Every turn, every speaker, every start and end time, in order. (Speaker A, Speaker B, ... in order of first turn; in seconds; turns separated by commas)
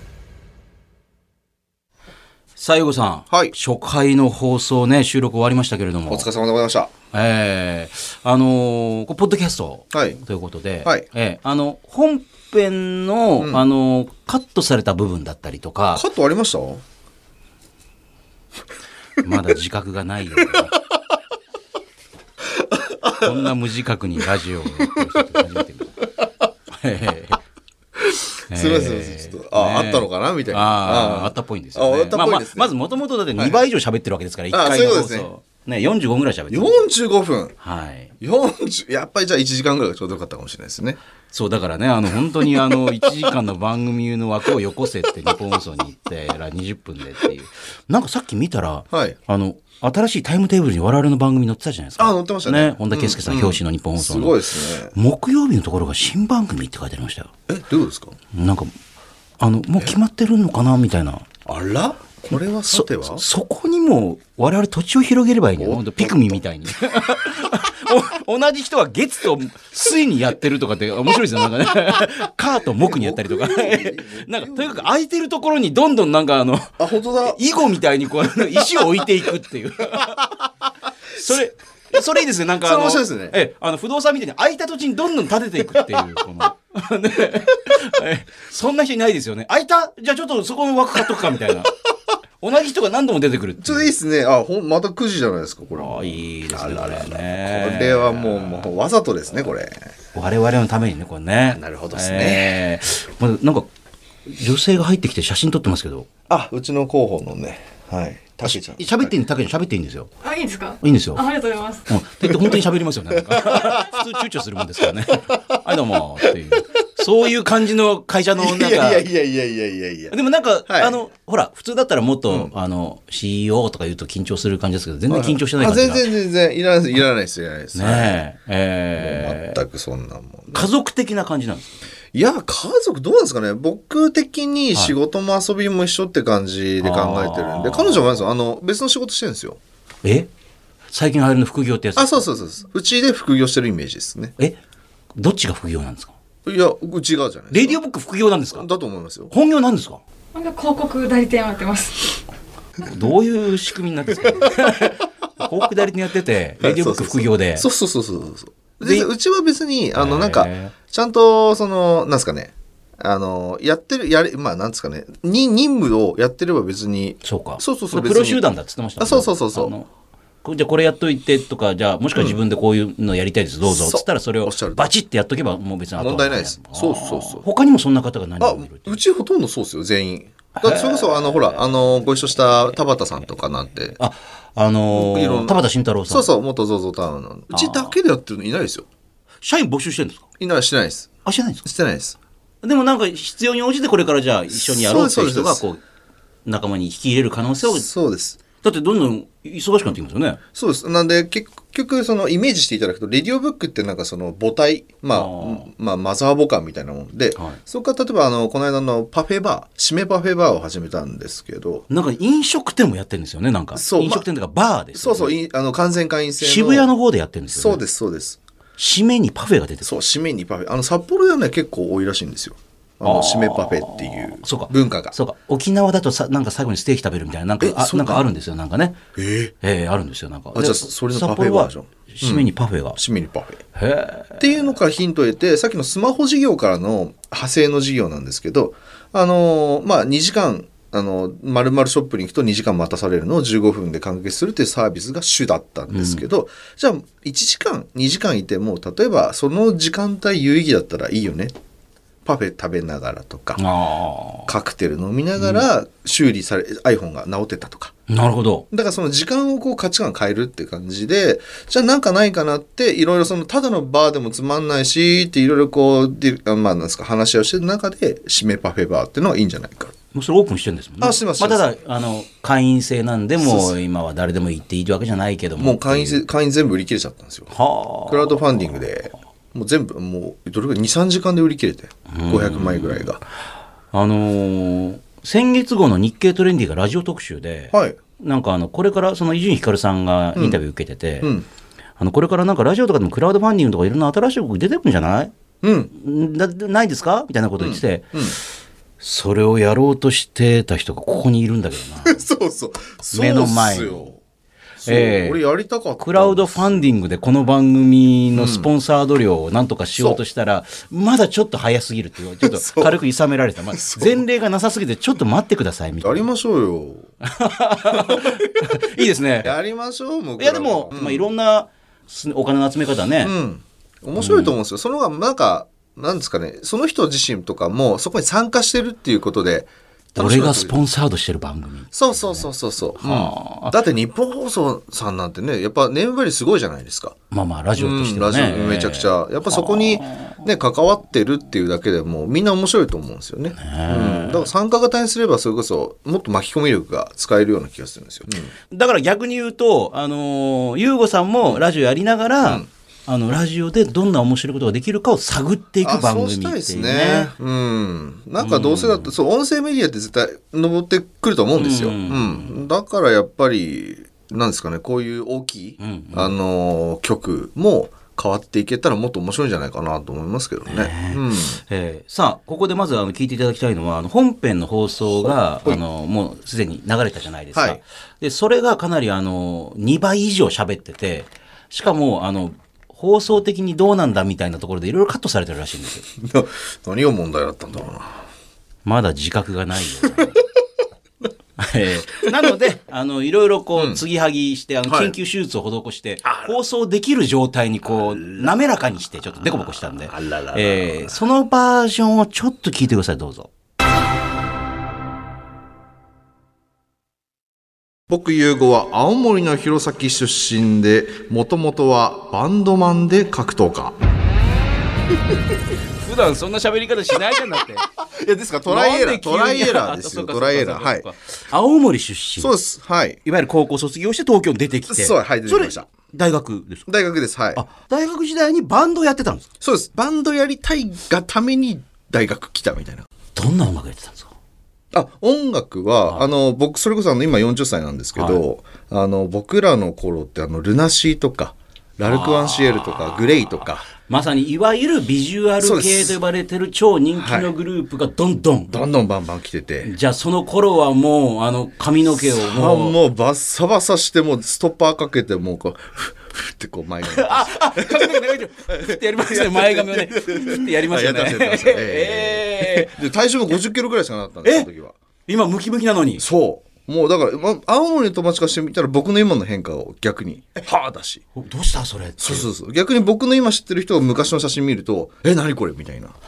Speaker A: 2.6-6.3, Speaker B: 3.3-3.5, Speaker B: 6.1-6.9, Speaker A: 7.1-16.1, Speaker B: 9.9-10.2, Speaker B: 15.9-16.8, Speaker A: 19.2-20.7, Speaker B: 20.4-20.8, Speaker B: 22.5-23.5, Speaker A: 23.1-26.0, Speaker B: 24.8-25.2, Speaker A: 26.7-27.4, Speaker B: 28.0-32.8, Speaker A: 28.5-36.9, Speaker B: 33.4-33.6, Speaker B: 34.5-35.3, Speaker B: 36.5-37.5, Speaker A: 37.6-38.1, Speaker B: 38.2-41.0, Speaker A: 41.3-54.4, Speaker B: 42.4-42.7, Speaker B: 48.9-49.2, Speaker B: 52.0-54.9, Speaker A: 54.9-57.3, Speaker B: 57.5-58.1, Speaker A: 58.3-58.7, Speaker A: 59.4-61.2, Speaker B: 61.5-63.2, Speaker A: 62.7-80.3, Speaker B: 65.6-66.7, Speaker B: 72.7-74.9, Speaker B: 76.8-77.4, Speaker B: 78.6-79.3, Speaker A: 81.1-91.8, Speaker B: 82.6-83.4, Speaker A: 92.4-93.9, Speaker B: 93.6-99.9, Speaker A: 95.8-98.8, Speaker A: 100.1-103.7, Speaker B: 101.5-102.6, Speaker A: 104.3-106.1, Speaker B: 106.3-109.1, Speaker A: 108.4-110.1, Speaker C: 110.2-111.9, Speaker A: 110.8-111.3, Speaker A: 111.9-119.0, Speaker B: 112.2-114.0, Speaker B: 115.1-116.3, Speaker B: 118.4-120.2, Speaker A: 120.1-126.0, Speaker B: 120.7-121.0, Speaker B: 122.3-122.5, Speaker B: 125.1-128.2, Speaker A: 127.8-129.6, Speaker B: 129.0-130.7, Speaker A: 130.5-131.8, Speaker B: 132.1-139.6, Speaker A: 136.8-138.2, Speaker A: 140.9-142.3, Speaker B: 142.0-144.3, Speaker A: 145.2-146.2, Speaker B: 146.5-147.8, Speaker A: 147.5-148.7, Speaker B: 148.5-149.3, Speaker A: 149.3-150.0, Speaker C: 150.3-152.2, Speaker A: 152.8-157.7, Speaker B: 154.2-154.6, Speaker B: 155.4-155.7, Speaker B: 156.6-168.4, Speaker A: 158.8-159.1, Speaker A: 159.9-160.7, Speaker A: 167.2-169.9, Speaker B: 169.0-169.8, Speaker A: 170.4-179.0, Speaker B: 173.7-175.0, Speaker B: 176.0-177.4, Speaker B: 178.4-184.0, Speaker A: 180.6-181.8, Speaker A: 182.3-182.8, Speaker A: 184.0-186.3, Speaker B: 184.9-188.9, Speaker A: 187.5-187.9, Speaker A: 189.4-190.2, Speaker B: 190.4-191.1, Speaker A: 191.2-191.6, Speaker B: 191.6-192.2, Speaker A: 192.6-195.8, Speaker B: 194.5-195.6, Speaker A: 196.5-197.9, Speaker B: 197.6-198.4, Speaker A: 198.6-200.4, Speaker B: 200.6-211.8, Speaker A: 205.1-205.7, Speaker A: 207.3-207.6, Speaker A: 211.9-215.4, Speaker B: 213.8-214.3, Speaker B: 215.0-216.9, Speaker A: 216.4-217.8, Speaker B: 217.5-218.4, Speaker A: 218.8-219.9, Speaker B: 219.8-225.2, Speaker A: 223.0-229.0, Speaker B: 227.6-228.3, Speaker B: 229.2-229.5, Speaker A: 229.6-233.0, Speaker B: 230.6-233.6, Speaker A: 233.8-234.8, Speaker B: 234.4-251.5, Speaker A: 245.9-246.2, Speaker B: 252.2-253.7, Speaker A: 253.6-254.5, Speaker B: 254.5-257.9, Speaker A: 255.4-255.7, Speaker A: 258.1-258.7, Speaker B: 258.7-269.9, Speaker A: 270.1-276.2, Speaker B: 271.0-271.7, Speaker B: 273.4-273.8, Speaker B: 275.6-277.5, Speaker A: 277.5-278.6, Speaker B: 278.1-283.2, Speaker A: 282.1-283.1, Speaker A: 283.9-291.3, Speaker B: 287.7-288.0, Speaker B: 290.4-290.6, Speaker A: 292.0-295.3, Speaker B: 295.6-295.9, Speaker A: 295.9-298.2, Speaker B: 297.6-298.4, Speaker A: 299.0-302.3, Speaker B: 302.1-304.2, Speaker A: 303.1-304.1, Speaker B: 304.8-306.9, Speaker A: 304.8-305.4, Speaker A: 306.0-316.3, Speaker B: 308.3-308.7, Speaker B: 312.4-313.0, Speaker B: 313.7-314.2, Speaker B: 316.0-317.1, Speaker A: 317.2-319.5, Speaker B: 317.9-321.3, Speaker A: 320.4-323.3, Speaker B: 323.2-330.8, Speaker A: 324.2-324.6, Speaker A: 330.1-332.5, Speaker B: 331.9-337.2, Speaker A: 333.0-333.8, Speaker A: 337.3-340.5, Speaker B: 337.8-348.5, Speaker A: 343.6-344.5, Speaker A: 348.7-357.3, Speaker B: 352.4-352.7, Speaker B: 355.8-371.6, Speaker A: 358.4-359.1, Speaker A: 361.6-362.6, Speaker A: 365.8-366.3, Speaker A: 370.7-386.1, Speaker B: 375.0-375.8, Speaker B: 377.6-377.8, Speaker B: 386.2-388.1, Speaker A: 388.9-390.4, Speaker B: 390.0-390.3, Speaker A: 391.6-403.5, Speaker B: 392.3-392.6, Speaker B: 393.8-394.0, Speaker B: 394.9-395.1, Speaker B: 396.2-396.6, Speaker B: 399.4-401.2, Speaker B: 408.1-413.9, Speaker A: 416.0-417.9, Speaker B: 418.1-421.1, Speaker A: 418.7-422.5, Speaker B: 422.4-423.2, Speaker A: 423.2-426.9, Speaker B: 424.9-425.9, Speaker B: 426.9-427.6, Speaker A: 427.6-429.5, Speaker B: 429.6-433.1, Speaker A: 433.4-434.3, Speaker B: 434.9-443.9, Speaker A: 438.2-438.4, Speaker A: 442.0-448.8, Speaker B: 445.6-446.2, Speaker B: 447.2-447.5, Speaker B: 448.7-449.9, Speaker A: 449.8-453.0, Speaker B: 452.1-465.0, Speaker A: 457.1-463.0, Speaker A: 465.3-466.2, Speaker B: 466.2-471.2, Speaker A: 471.4-472.5, Speaker B: 472.2-476.2